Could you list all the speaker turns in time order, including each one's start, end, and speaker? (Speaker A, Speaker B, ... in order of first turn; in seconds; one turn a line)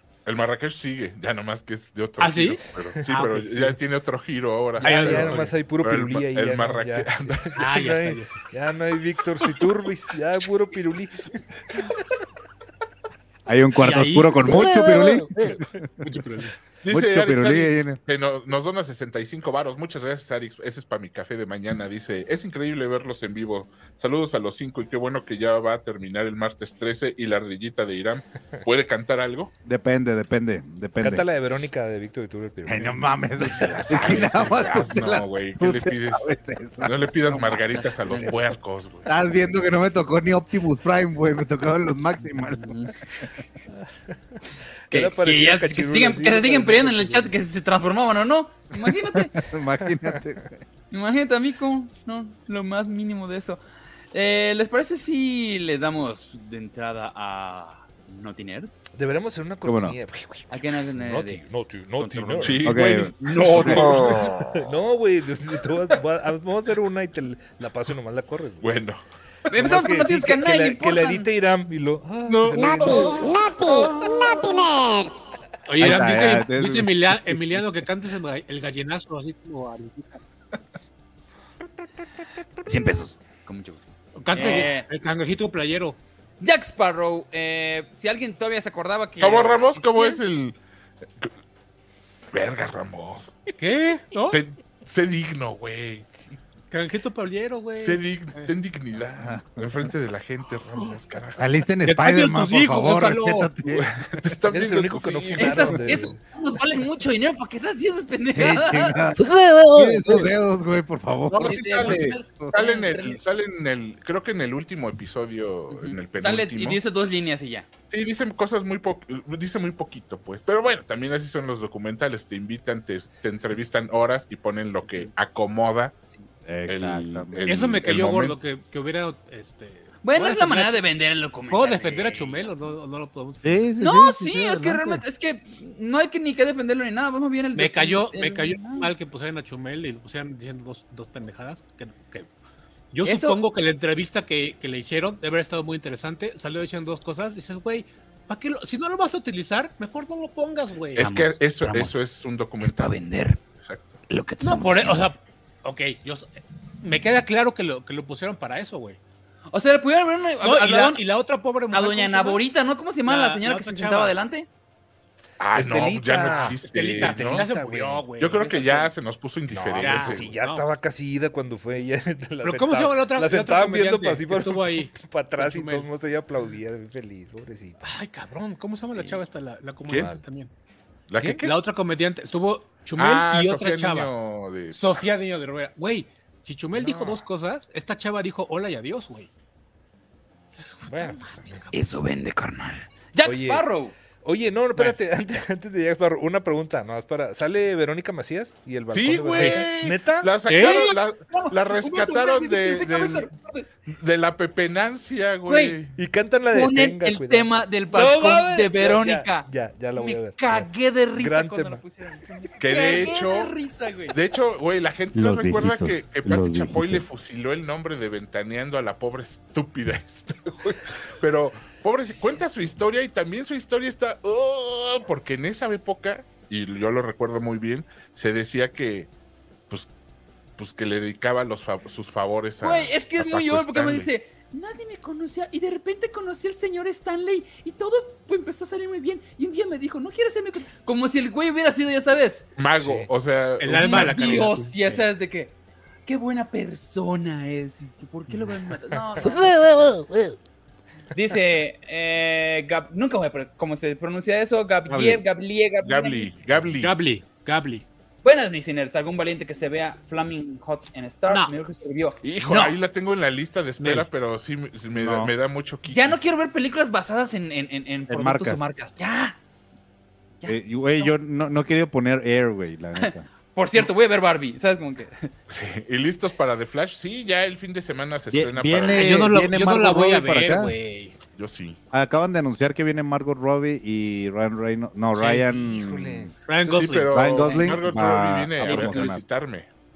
Speaker A: 0.2-7.5
Speaker B: 2.2-3.8
Speaker B: 4.8-5.6
Speaker C: 4.8-11.8
Speaker B: 7.5-8.3
Speaker D: 13.4-15.8
Speaker B: 13.8-16.6
Speaker A: 16.8-29.5
Speaker D: 16.9-18.0
Speaker D: 29.6-31.2
Speaker C: 31.0-33.8
Speaker D: 32.6-37.6
Speaker A: 33.6-36.3
Speaker A: 36.8-39.1
Speaker E: 38.0-38.3
Speaker D: 39.0-42.9
Speaker E: 42.6-42.9
Speaker C: 43.7-47.4
Speaker E: 44.9-49.4
Speaker D: 48.8-50.6
Speaker C: 49.8-50.2
Speaker E: 50.9-53.6
Speaker E: 54.1-58.7
Speaker C: 58.9-62.6
Speaker D: 59.6-60.0
Speaker E: 60.5-61.4
Speaker E: 62.0-62.7
Speaker A: 62.4-64.6
Speaker D: 62.6-63.9
Speaker C: 63.5-68.7
Speaker A: 68.6-69.0
Speaker E: 69.5-71.3
Speaker C: 69.5-73.2
Speaker A: 72.3-73.3
Speaker F: 72.6-75.1
Speaker B: 75.7-80.2
Speaker D: 75.8-77.7
Speaker E: 82.7-84.9
Speaker B: 84.1-86.0
Speaker E: 86.4-90.2
Speaker A: 89.2-90.6
Speaker A: 92.3-93.4
Speaker B: 93.6-94.4
Speaker A: 94.3-96.1
Speaker B: 96.7-98.5
Speaker A: 97.7-101.5
Speaker D: 99.2-99.8
Speaker D: 101.4-104.3
Speaker B: 101.8-103.6
Speaker A: 103.7-105.8
Speaker C: 104.5-106.2
Speaker E: 105.4-109.2
Speaker D: 108.3-112.5
Speaker A: 111.3-116.8
Speaker E: 111.4-113.2
Speaker E: 115.8-117.7
Speaker A: 117.9-125.9
Speaker D: 126.5-127.5
Speaker A: 126.7-128.4
Speaker B: 127.5-130.8
Speaker E: 130.0-132.5
Speaker B: 131.5-133.7
Speaker D: 133.4-135.0
Speaker E: 133.8-138.9
Speaker B: 137.5-142.3
Speaker B: 142.9-151.1
Speaker E: 143.0-143.4
Speaker A: 150.9-154.0
Speaker E: 151.0-152.0
Speaker E: 152.6-153.4
Speaker E: 154.1-155.1
Speaker B: 154.4-156.3
Speaker B: 156.8-159.0
Speaker E: 159.5-161.0
Speaker B: 160.4-162.4
Speaker E: 161.7-164.5
Speaker B: 163.0-164.2
Speaker A: 165.4-167.4
Speaker C: 165.5-168.0
Speaker B: 166.3-168.6
Speaker A: 168.2-170.3
Speaker E: 168.4-168.9
Speaker C: 169.5-177.8
Speaker B: 169.8-170.7
Speaker B: 172.4-175.9
Speaker B: 177.8-180.5
Speaker E: 178.8-179.2
Speaker C: 179.9-180.2
Speaker A: 181.1-181.5
Speaker B: 181.4-184.1
Speaker A: 182.9-184.8
Speaker B: 184.7-189.3
Speaker C: 186.8-187.2
Speaker B: 190.5-191.7
Speaker C: 190.9-191.6
Speaker E: 191.7-193.9
Speaker C: 193.2-193.6
Speaker C: 194.2-200.3
Speaker A: 198.9-203.3
Speaker B: 200.5-200.9
Speaker E: 200.5-203.7
Speaker A: 203.9-205.9
Speaker E: 205.5-205.8
Speaker C: 205.9-211.8
Speaker E: 206.5-214.2
Speaker A: 212.6-213.5
Speaker A: 214.1-229.1
Speaker D: 215.1-217.0
Speaker A: 230.6-234.1
Speaker E: 232.6-242.5
Speaker A: 242.6-244.4
Speaker C: 242.7-243.1
Speaker B: 243.6-245.0
Speaker E: 243.8-245.5
Speaker E: 246.1-250.0
Speaker C: 248.9-249.3
Speaker B: 249.3-250.2
Speaker E: 251.1-256.3
Speaker B: 254.9-255.2
Speaker A: 255.8-257.0
Speaker B: 256.8-257.8
Speaker E: 258.2-262.8
Speaker B: 261.3-261.5
Speaker A: 262.2-266.1
Speaker B: 263.8-264.1
Speaker D: 265.0-265.3
Speaker E: 265.9-269.4
Speaker D: 268.1-268.7
Speaker E: 270.4-271.1
Speaker D: 270.4-273.3
Speaker E: 273.0-275.3
Speaker A: 275.5-279.2
Speaker D: 278.3-280.7
Speaker B: 278.9-281.2
Speaker A: 281.4-281.8
Speaker D: 281.9-286.3
Speaker C: 285.1-286.3
Speaker B: 286.5-287.4
Speaker A: 286.6-289.7
Speaker D: 287.1-289.2
Speaker E: 288.6-289.1